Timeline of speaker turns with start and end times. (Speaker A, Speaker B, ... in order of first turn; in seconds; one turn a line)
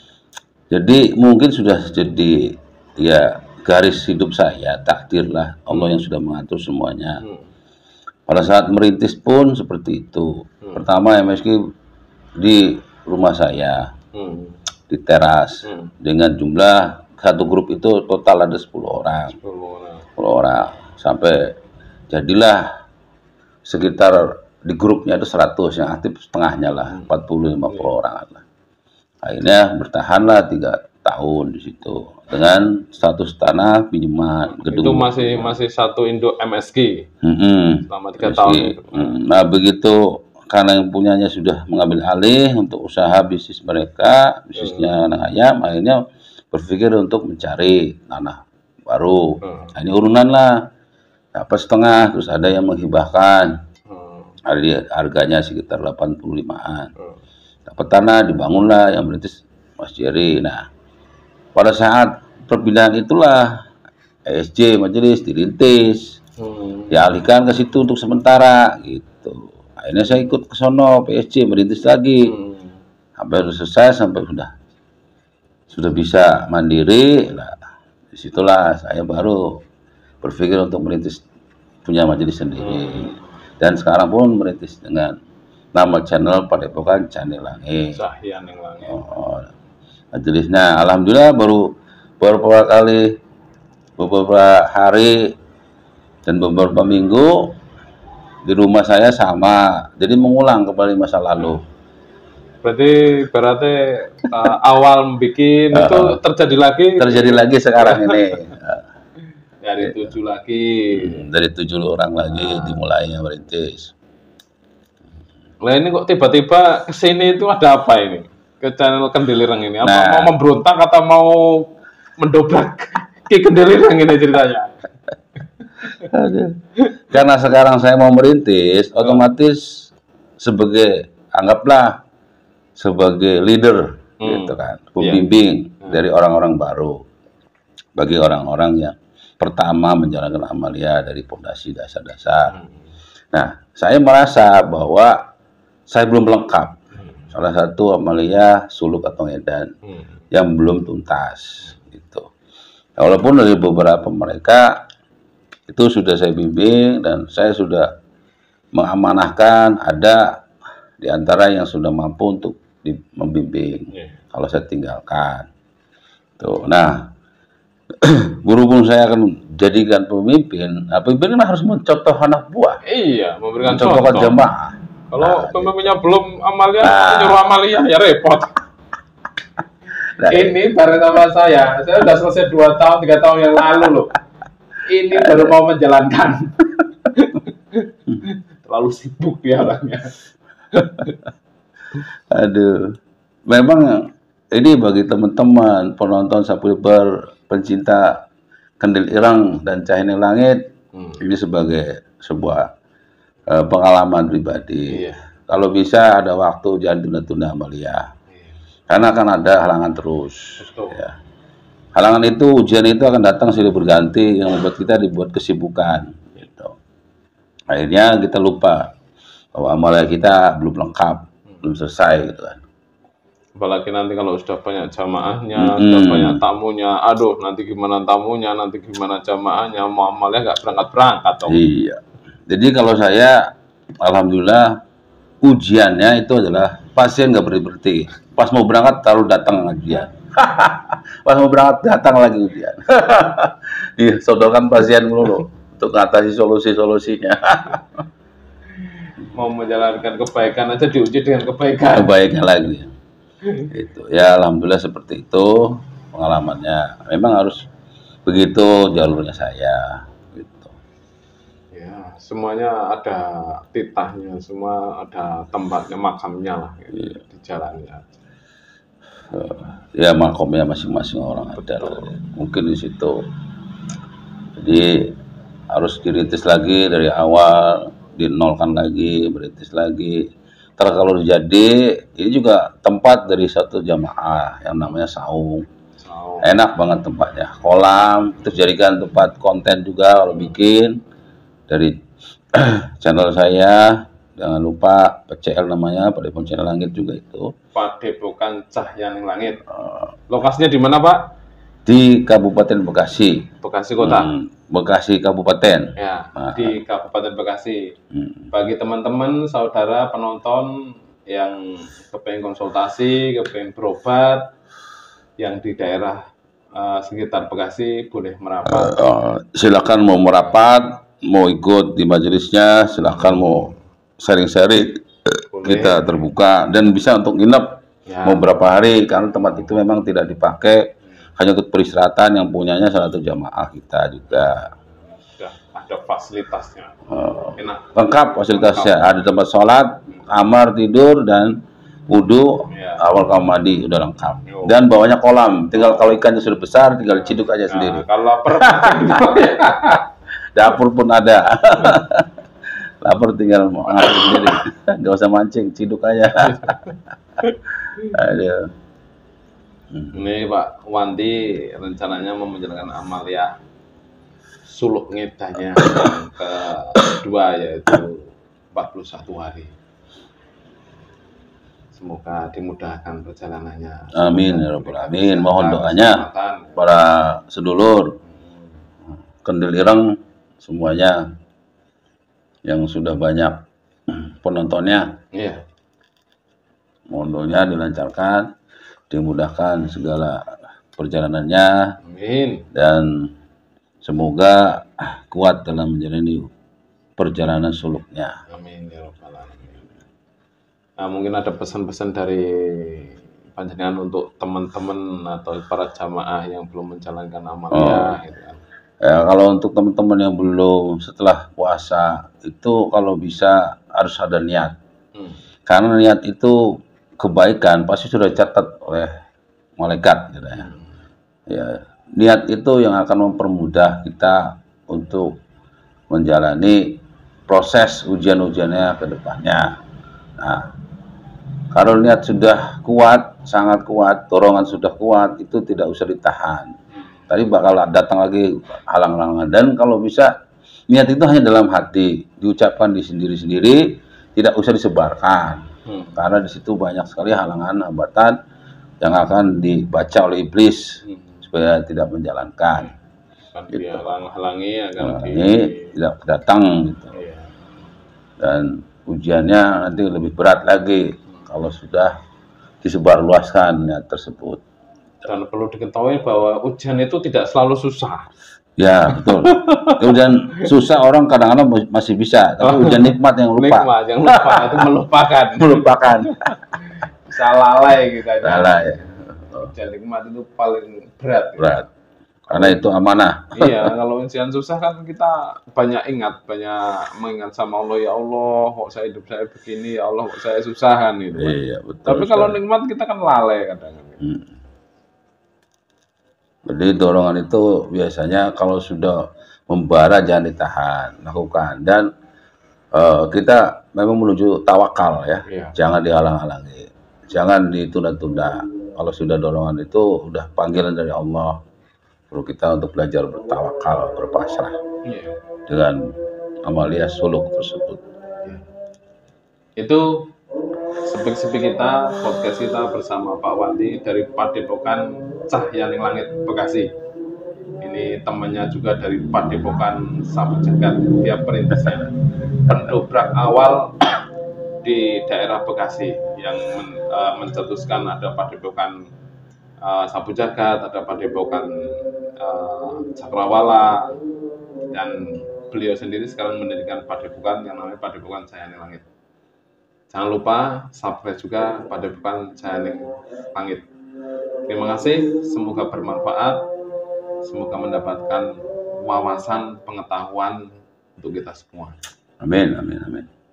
Speaker A: 0.7-7.2
Speaker B: 7.2-7.5
Speaker A: 8.3-11.6
Speaker A: 12.4-13.8
Speaker B: 14.1-14.6
Speaker A: 14.9-19.4
Speaker B: 15.6-15.9
Speaker B: 19.3-20.1
Speaker A: 20.2-21.5
Speaker A: 22.1-22.7
Speaker A: 23.6-28.4
Speaker A: 29.2-35.6
Speaker B: 34.5-37.0
Speaker A: 37.2-50.5
Speaker B: 37.9-39.2
Speaker B: 44.5-44.9
Speaker B: 49.4-49.7
Speaker A: 51.3-53.5
Speaker B: 53.9-54.4
Speaker A: 54.5-56.9
Speaker A: 57.6-60.6
Speaker A: 61.5-63.5
Speaker A: 64.3-66.1
Speaker B: 66.4-67.0
Speaker A: 66.9-72.3
Speaker B: 72.2-72.8
Speaker A: 73.2-74.5
Speaker A: 75.7-77.5
Speaker A: 78.1-79.6
Speaker A: 80.2-81.2
Speaker A: 81.8-85.1
Speaker B: 82.6-83.2
Speaker A: 85.7-88.0
Speaker B: 87.9-89.0
Speaker A: 88.9-89.5
Speaker A: 90.1-91.6
Speaker A: 92.2-93.1
Speaker A: 94.0-95.3
Speaker A: 96.2-97.5
Speaker A: 98.5-101.6
Speaker B: 102.6-108.2
Speaker A: 105.7-106.2
Speaker A: 107.0-108.8
Speaker B: 109.6-111.2
Speaker A: 109.8-110.1
Speaker A: 111.0-113.9
Speaker B: 112.3-112.8
Speaker B: 115.6-124.8
Speaker A: 119.8-120.3
Speaker B: 125.6-125.9
Speaker A: 126.1-126.5
Speaker A: 127.1-132.0
Speaker A: 132.8-137.0
Speaker B: 134.2-135.2
Speaker A: 138.0-142.5
Speaker B: 142.5-142.9
Speaker A: 143.3-145.2
Speaker A: 145.9-146.8
Speaker B: 147.0-147.3
Speaker A: 147.3-149.7
Speaker A: 150.3-152.3
Speaker A: 153.0-154.8
Speaker A: 155.7-157.9
Speaker A: 158.7-160.3
Speaker A: 161.0-165.5
Speaker B: 163.9-164.2
Speaker A: 166.4-167.1
Speaker A: 168.0-172.8
Speaker B: 172.8-174.4
Speaker A: 173.6-175.9
Speaker B: 175.1-178.5
Speaker A: 176.8-177.4
Speaker A: 180.2-180.6
Speaker B: 180.2-184.2
Speaker B: 184.8-190.1
Speaker A: 185.2-185.6
Speaker B: 190.7-191.2
Speaker A: 192.3-192.9
Speaker A: 193.5-198.2
Speaker A: 198.8-200.6
Speaker B: 200.9-201.2
Speaker A: 201.2-202.7
Speaker A: 203.5-208.0
Speaker B: 204.9-205.2
Speaker A: 208.9-211.2
Speaker B: 210.6-211.0
Speaker A: 211.9-216.8
Speaker A: 217.7-218.9
Speaker A: 219.5-222.6
Speaker B: 223.6-231.6
Speaker A: 225.6-226.4
Speaker A: 231.5-234.8
Speaker A: 235.4-248.0
Speaker B: 248.8-252.1
Speaker A: 251.9-252.9
Speaker A: 253.7-257.6
Speaker A: 258.2-260.7
Speaker B: 261.7-268.1
Speaker A: 266.9-267.2
Speaker A: 269.3-273.2
Speaker A: 274.6-275.1
Speaker A: 275.7-280.2
Speaker A: 280.8-285.6
Speaker B: 286.0-286.5
Speaker A: 286.4-291.0
Speaker A: 291.7-291.9
Speaker A: 292.5-297.5
Speaker B: 297.7-299.6
Speaker A: 299.7-300.1
Speaker B: 300.3-301.2
Speaker A: 301.9-303.5
Speaker B: 303.6-304.3
Speaker A: 304.0-306.8
Speaker B: 306.0-307.9
Speaker A: 308.1-308.5
Speaker B: 308.5-310.8
Speaker B: 311.3-314.5
Speaker B: 315.4-316.2
Speaker B: 316.7-318.9
Speaker A: 318.7-334.7
Speaker B: 323.1-323.8
Speaker B: 325.5-326.2
Speaker B: 328.1-328.4
Speaker B: 335.4-337.0
Speaker A: 337.1-341.6
Speaker B: 337.6-337.9
Speaker B: 338.5-339.0
Speaker A: 342.1-348.0
Speaker B: 342.7-343.1
Speaker B: 344.4-344.8
Speaker B: 345.7-346.2
Speaker B: 347.7-350.0
Speaker A: 348.6-349.2
Speaker A: 350.5-352.3
Speaker A: 353.0-356.8
Speaker B: 353.9-354.5
Speaker B: 356.4-358.1
Speaker A: 358.0-358.7
Speaker A: 359.9-360.2
Speaker B: 360.1-363.5
Speaker B: 364.6-369.7
Speaker B: 371.9-376.7
Speaker A: 374.1-376.2
Speaker A: 376.8-378.1
Speaker A: 379.4-381.3
Speaker A: 382.6-385.1
Speaker B: 385.3-385.6
Speaker A: 387.1-388.5
Speaker A: 389.1-392.0
Speaker B: 392.0-392.6
Speaker A: 392.7-393.3
Speaker A: 394.0-396.5
Speaker A: 397.2-398.3
Speaker B: 398.5-399.9
Speaker B: 401.0-408.6
Speaker A: 407.7-408.1
Speaker A: 409.0-414.8
Speaker A: 415.7-419.1
Speaker A: 419.8-420.7
Speaker B: 420.6-420.9
Speaker A: 421.5-425.3
Speaker A: 426.1-429.7
Speaker A: 430.4-430.6
Speaker A: 431.7-436.7
Speaker A: 437.3-440.3
Speaker A: 440.9-445.6
Speaker B: 445.9-446.2
Speaker A: 446.1-448.4
Speaker A: 449.0-452.9
Speaker B: 451.1-451.4
Speaker B: 453.5-455.9
Speaker A: 453.7-454.1
Speaker A: 455.0-457.1
Speaker B: 457.1-457.5
Speaker A: 458.4-462.1
Speaker A: 462.8-464.6
Speaker B: 465.2-468.2
Speaker A: 468.8-474.9
Speaker B: 469.1-470.6
Speaker B: 472.6-478.9
Speaker A: 475.6-476.4
Speaker A: 478.4-479.7
Speaker B: 479.6-481.8
Speaker A: 481.6-481.9
Speaker B: 482.5-482.8
Speaker A: 482.5-483.9
Speaker B: 483.6-494.2
Speaker A: 491.4-492.6
Speaker A: 494.2-494.5
Speaker A: 496.6-502.1
Speaker A: 502.9-511.6
Speaker B: 505.5-505.7
Speaker A: 512.3-514.8
Speaker B: 515.0-515.4
Speaker A: 515.7-516.0
Speaker A: 516.6-518.0
Speaker B: 519.8-520.3
Speaker B: 521.0-526.9
Speaker B: 527.8-532.1
Speaker B: 532.6-534.1
Speaker A: 532.7-533.0
Speaker B: 534.8-539.0
Speaker B: 539.8-544.1
Speaker B: 544.9-549.0
Speaker B: 550.1-553.0
Speaker B: 553.5-553.9
Speaker B: 554.7-556.6
Speaker B: 557.4-562.0
Speaker A: 562.4-563.3